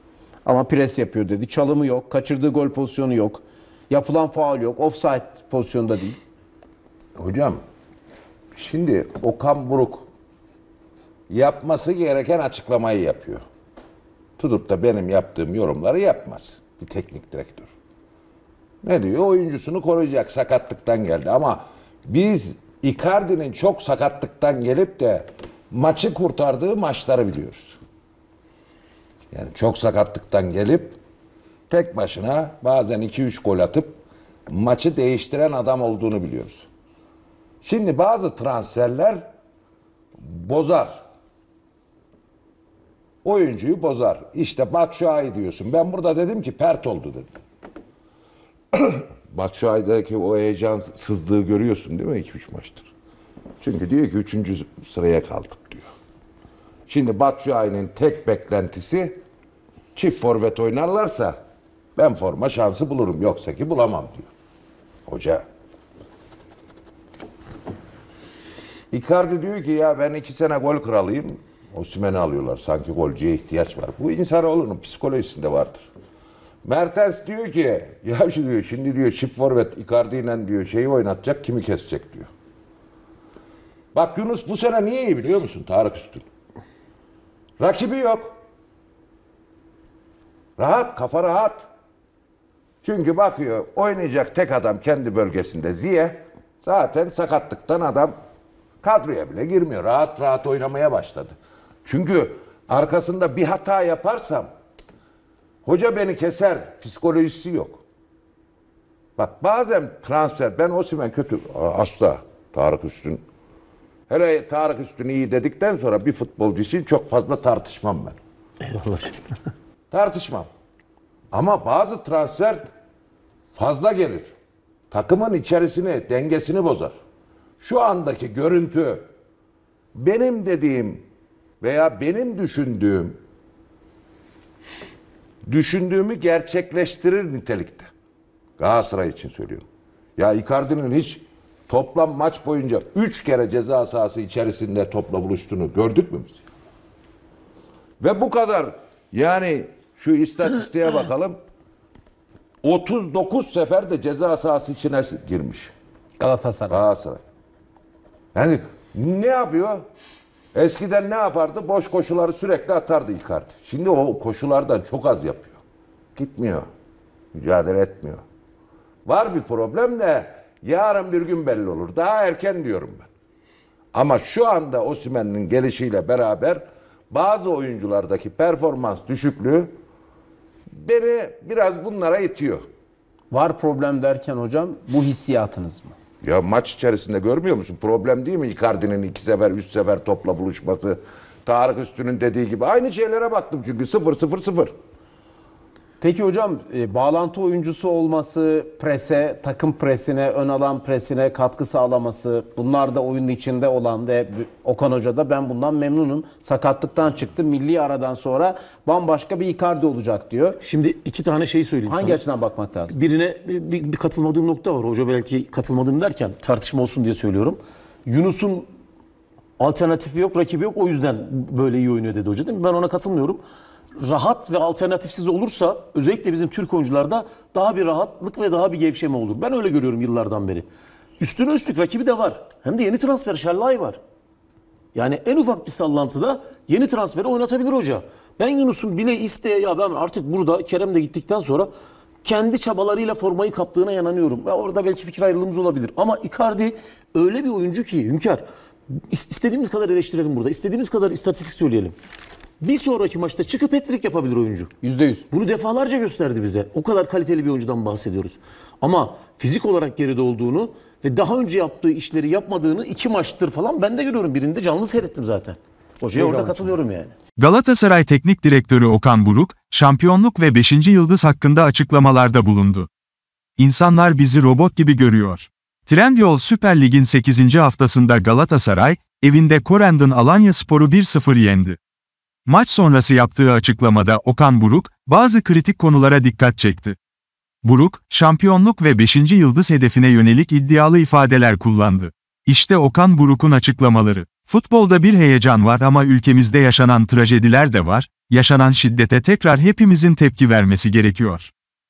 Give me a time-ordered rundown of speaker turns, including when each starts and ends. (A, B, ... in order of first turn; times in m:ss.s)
0:00.4-0:06.2 A
0:07.2-0:07.6 B
0:08.6-0:10.1 B
0:11.3-0:13.4 B
0:14.4-0:17.7 B
0:18.8-0:27.8 B
0:29.3-0:31.0 B
0:31.7-0:34.0 B
0:34.5-0:36.7 B
0:37.6-0:39.3 B
0:40.2-0:41.0 B
0:43.2-0:47.3 B
0:48.7-0:52.9 B
0:53.6-0:55.9 B
0:56.9-0:59.2 B
1:00.0-1:01.4 B
1:02.0-1:04.3 B
1:05.1-1:05.4 B
1:08.9-1:15.9 B
1:16.6-1:22.3 B
1:23.9-1:26.3 B
1:27.6-1:28.4 B
1:30.6-1:31.7 B
1:32.8-1:38.2 B
1:38.8-1:44.5 B
1:45.6-1:47.8 B
1:49.2-1:53.2 B
1:54.1-1:58.2 B
1:58.6-1:59.2 C
1:59.9-2:00.5 B
2:01.3-2:02.6 B
2:03.5-2:04.3 B
2:04.9-2:07.0 B
2:07.6-2:09.1 B
2:10.0-2:11.0 B
2:11.6-2:13.2 B
2:15.4-2:17.9 B
2:18.6-2:26.4 B
2:28.0-2:31.4 B
2:32.6-2:35.7 B
2:36.2-2:36.8 A
2:36.7-2:37.2 B
2:38.4-2:39.8 B
2:40.5-2:45.6 B
2:46.2-2:46.7 B
2:47.3-2:48.2 B
2:49.0-2:53.1 B
2:53.9-2:59.7 B
3:00.7-3:02.6 B
3:03.3-3:06.0 A
3:06.2-3:14.7 B
3:16.0-3:30.6 A
3:30.6-3:32.2 C
3:31.9-3:33.0 A
3:32.9-3:38.7 C
3:39.6-3:43.4 C
3:44.0-3:50.7 C
3:51.2-3:54.0 C
3:55.0-4:01.7 C
4:02.2-4:12.0 C
4:12.6-4:14.7 C
4:14.8-4:15.3 A
4:15.3-4:27.1 C
4:26.2-4:26.6 A
4:27.4-4:32.9 D
4:33.6-4:41.8 D
4:42.5-4:47.0 D
4:47.6-5:01.5 D